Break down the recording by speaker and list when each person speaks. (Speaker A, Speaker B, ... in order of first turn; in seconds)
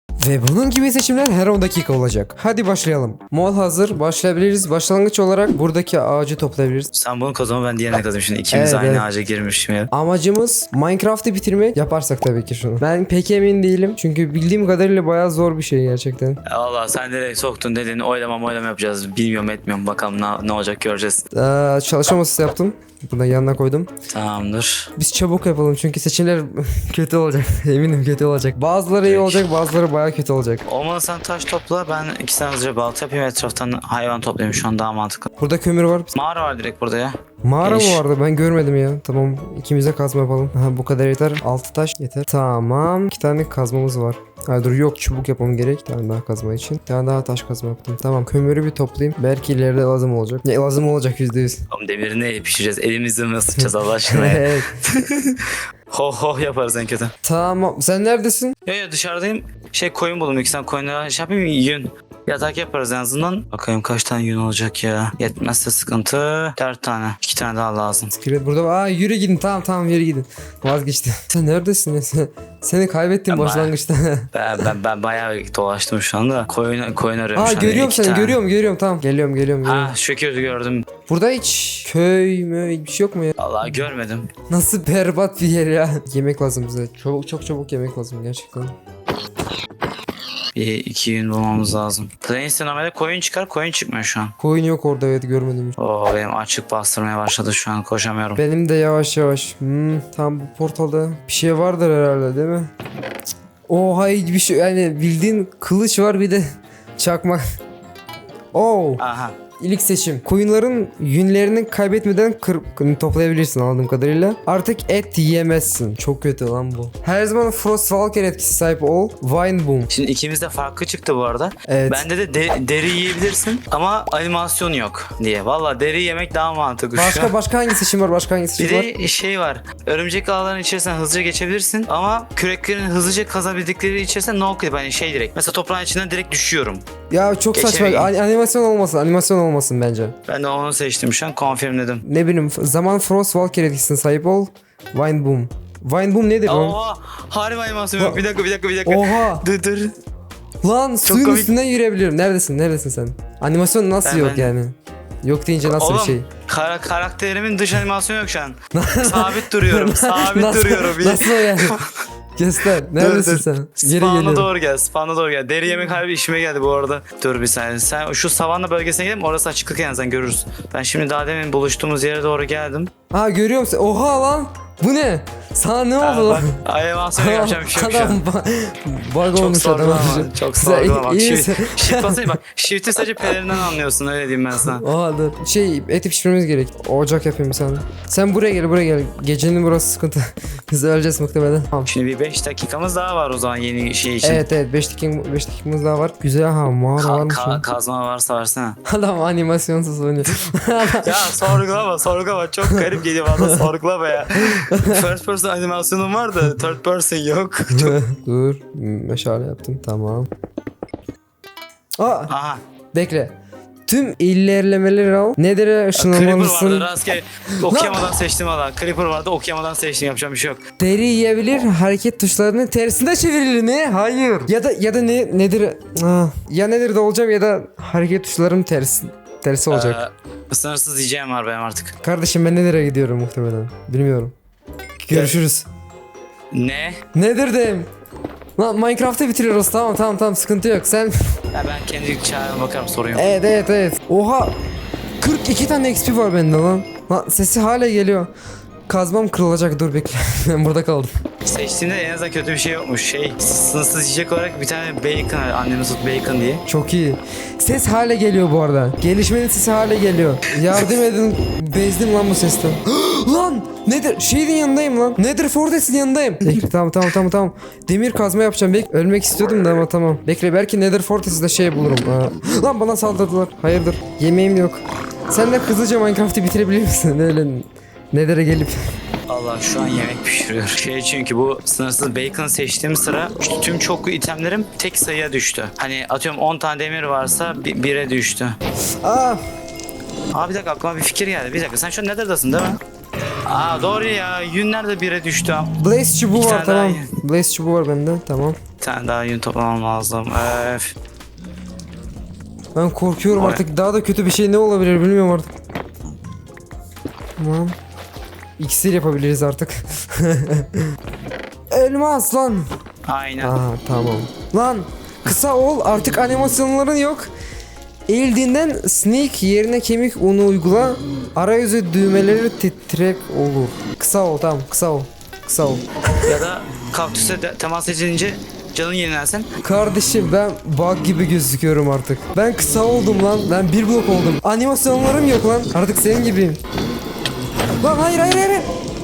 Speaker A: 0.2-6.9, 8.5-9.1, 9.9-16.4, 21.3-23.9, 25.0-30.6, 35.4-36.1, 37.4-51.6, 53.6-54.7, 57.2-58.5, 68.2-74.3, 77.3-79.9, 81.1-83.3, 84.5-88.7, 94.4-95.8, 98.4-102.7, 103.7-106.4, 107.0-107.4, 108.5-109.0, 109.6-119.9, 121.7-122.0, 126.9-128.9, 137.1-140.1, 142.0-146.8, 148.8-149.4, 150.6-156.3, 158.7-161.8, 162.4-164.5, 173.1-176.6, 177.1-182.2, 184.6-191.9, 194.2-197.6, 198.9-201.5, 204.5-205.0, 207.7-210.3, 212.0-212.3, 212.9-213.3, 213.9-216.9, 217.6-218.1, 220.8-230.0, 232.0-234.3, 235.1-235.7, 237.1-237.9, 238.6-241.4, 243.1-244.5, 245.2-248.3, 248.9-251.1, 256.7-278.8, 289.0-289.4, 295.8-298.6, 302.7-305.5, 307.4-307.7, 308.6-310.8, 311.7-312.6, 313.4-317.3, 318.1-326.4, 329.6-336.6, 337.8-338.7
Speaker B: 6.9-9.9, 16.4-21.2, 24.1-24.9, 29.0-29.5, 30.6-35.3, 36.1-38.0, 51.7-57.1, 58.6-68.1, 73.3-73.7, 74.3-78.4, 79.6-80.8, 83.4-84.3, 90.5-94.3, 95.8-98.4, 109.0-109.3, 119.9-127.3, 128.6-136.8, 137.5-138.1, 140.3-142.0, 146.4-149.9, 151.0-151.5, 154.0-154.5, 155.6-162.0, 162.9-172.9, 176.0-178.2, 179.3-184.8, 191.9-194.4, 197.0-198.8, 201.0-208.0, 212.3-212.6, 215.9-220.6, 229.7-232.0, 235.1-235.3, 236.5-237.0, 241.5-243.2, 251.4-256.6, 279.3-288.6, 290.3-292.8, 293.4-295.7, 296.3-297.1, 298.8-300.9, 303.3-303.6, 313.1-313.6, 326.2-329.5